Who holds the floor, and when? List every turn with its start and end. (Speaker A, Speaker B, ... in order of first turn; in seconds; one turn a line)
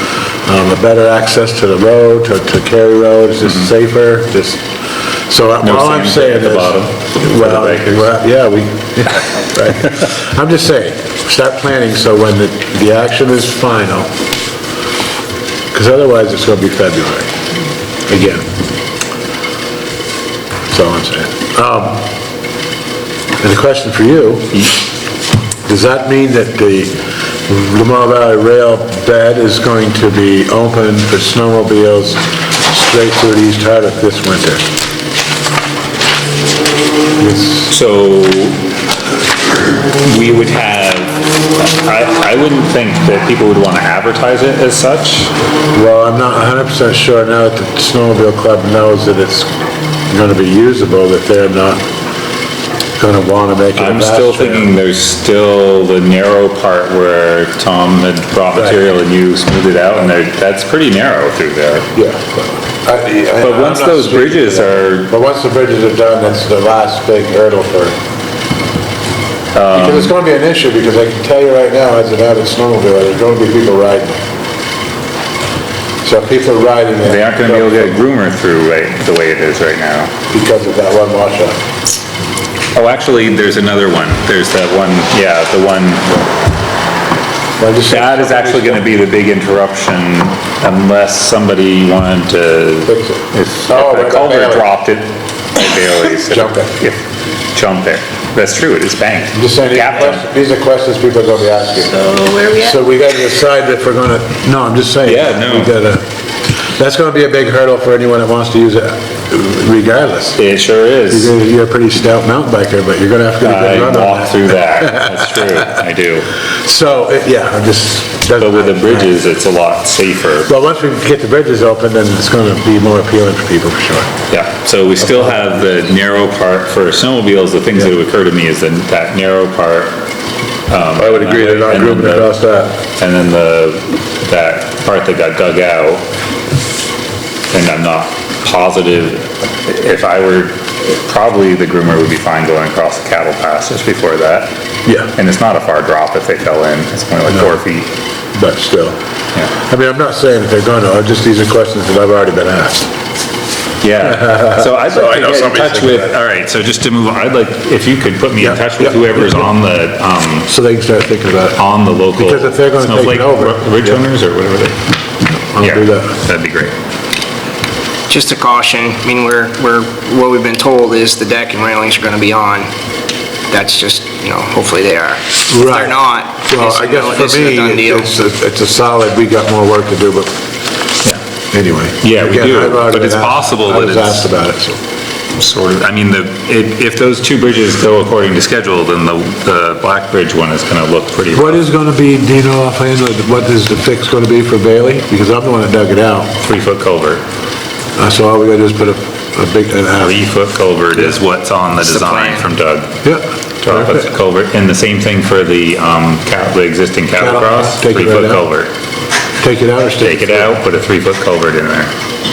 Speaker A: 0.5-4.6
Speaker A: 5.3-14.1
Speaker B: 5.6-8.1
Speaker A: 15.7-17.3
Speaker A: 18.1-18.5
Speaker A: 20.7-22.0
Speaker A: 23.4-24.7
Speaker A: 25.7-26.9
Speaker A: 27.5-34.7
Speaker A: 37.2-37.7
Speaker B: 37.7-38.6
Speaker B: 40.0-45.3
Speaker A: 45.7-49.5
Speaker A: 50.1-51.9
Speaker A: 53.0-54.7
Speaker B: 53.8-61.9
Speaker A: 58.5-58.8
Speaker A: 61.9-68.0
Speaker B: 63.4-65.1
Speaker B: 69.5-70.1
Speaker A: 69.7-74.2
Speaker A: 76.0-78.0
Speaker B: 77.0-80.1
Speaker A: 80.3-81.6
Speaker B: 82.7-86.1
Speaker A: 87.6-88.9
Speaker B: 87.9-97.0
Speaker A: 92.9-94.7
Speaker A: 96.2-96.7
Speaker B: 97.5-100.2
Speaker A: 99.3-106.0
Speaker B: 105.0-105.8
Speaker A: 106.7-110.4
Speaker B: 110.4-111.3
Speaker A: 111.1-115.8
Speaker B: 113.4-116.3
Speaker A: 116.6-119.1
Speaker B: 118.4-120.5
Speaker A: 120.5-124.1
Speaker B: 124.3-129.9
Speaker A: 125.0-125.5
Speaker B: 130.7-132.3
Speaker A: 131.0-132.8
Speaker B: 133.0-136.0
Speaker B: 137.5-144.5
Speaker A: 144.9-145.1
Speaker B: 145.1-147.9
Speaker A: 148.3-149.0
Speaker A: 149.5-152.9
Speaker B: 153.8-160.5
Speaker A: 154.5-156.1
Speaker A: 158.4-159.5
Speaker A: 160.5-161.6
Speaker B: 161.6-164.8
Speaker A: 162.2-164.0
Speaker A: 165.4-166.2
Speaker B: 165.6-166.7
Speaker C: 168.1-172.7
Speaker C: 173.5-178.1
Speaker A: 175.5-180.3
Speaker A: 181.5-184.8
Speaker B: 182.0-184.3
Speaker B: 185.4-191.6
Speaker A: 191.3-196.4
Speaker B: 196.4-197.2
Speaker A: 198.0-200.2
Speaker B: 200.0-202.9
Speaker C: 201.8-202.4
Speaker A: 203.0-204.1
Speaker B: 203.6-208.7
Speaker A: 207.2-208.4
Speaker A: 209.4-210.6
Speaker B: 210.0-211.9